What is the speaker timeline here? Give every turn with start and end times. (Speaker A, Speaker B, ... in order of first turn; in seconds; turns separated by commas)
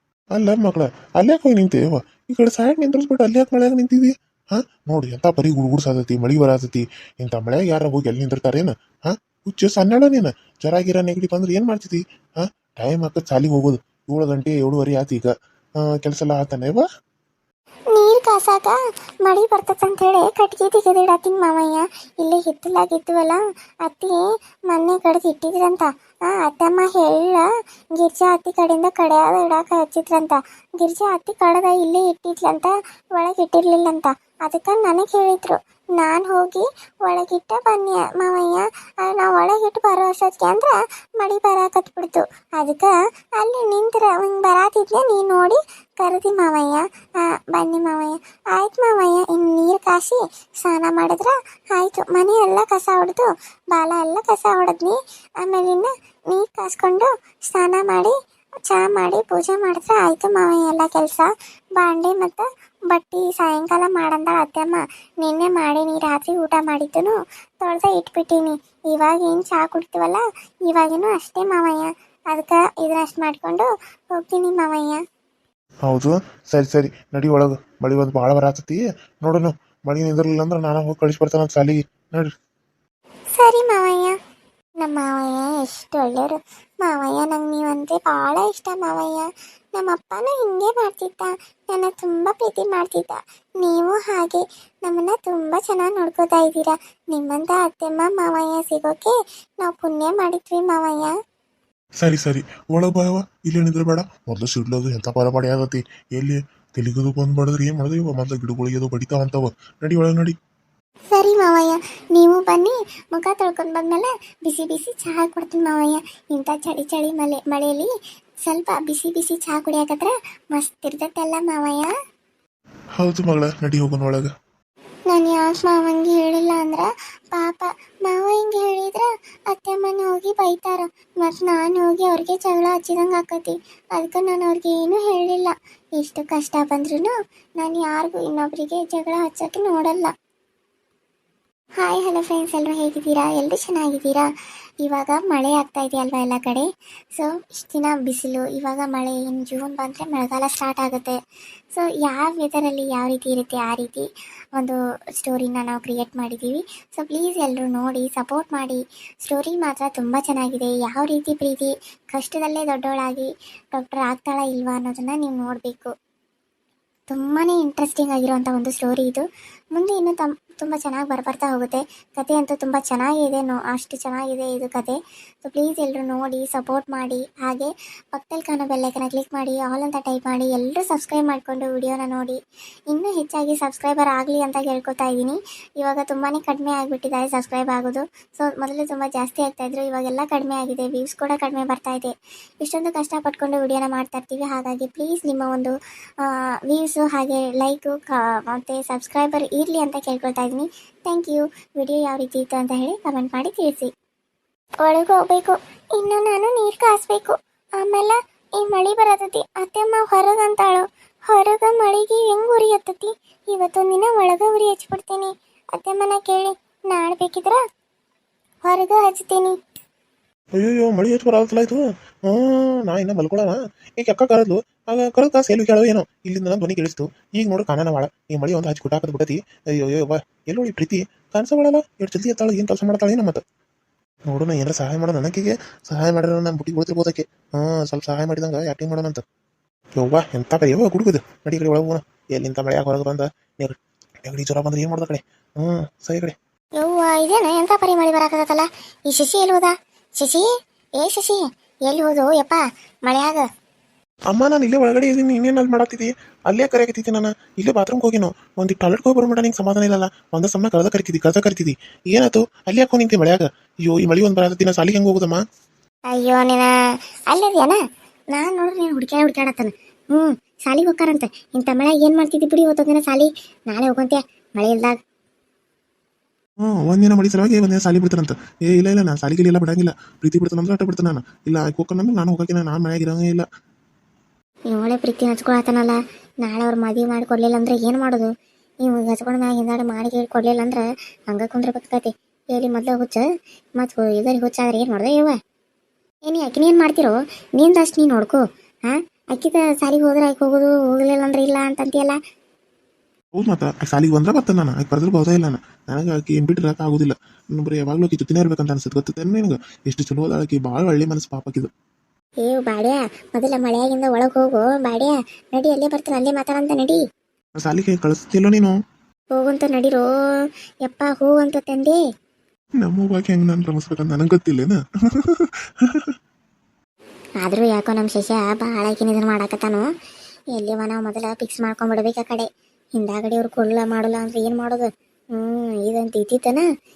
Speaker A: 0.3-16.9, Speaker B: 17.9-75.0, Speaker A: 75.9-82.3, Speaker B: 83.3-84.2, Speaker B: 84.8-101.1, Speaker A: 102.0-110.3, Speaker B: 111.1-117.9, Speaker B: 118.5-121.9, Speaker A: 123.0-124.3, Speaker B: 125.1-140.1, Speaker B: 141.8-144.3, Speaker B: 144.8-151.2, Speaker B: 151.7-165.9, Speaker B: 167.1-182.4, Speaker B: 182.9-203.9, Speaker B: 204.8-217.6, Speaker B: 218.6-219.6, Speaker A: 220.6-233.4, Speaker A: 234.3-239.2, Speaker A: 240.0-246.3, Speaker B: 246.8-250.5, Speaker B: 251.0-253.4, Speaker A: 254.3-265.4, Speaker B: 266.1-266.7, Speaker B: 267.3-267.8, Speaker B: 268.3-274.9, Speaker A: 276.6-283.4, Speaker B: 284.7-288.3, Speaker B: 288.8-293.3, Speaker B: 293.8-295.4, Speaker B: 296.3-302.2, Speaker A: 303.4-311.7, Speaker B: 312.4-317.0, Speaker A: 317.6-318.7, Speaker B: 319.3-322.0, Speaker A: 322.8-326.1, Speaker B: 327.4-329.9, Speaker B: 330.5-336.6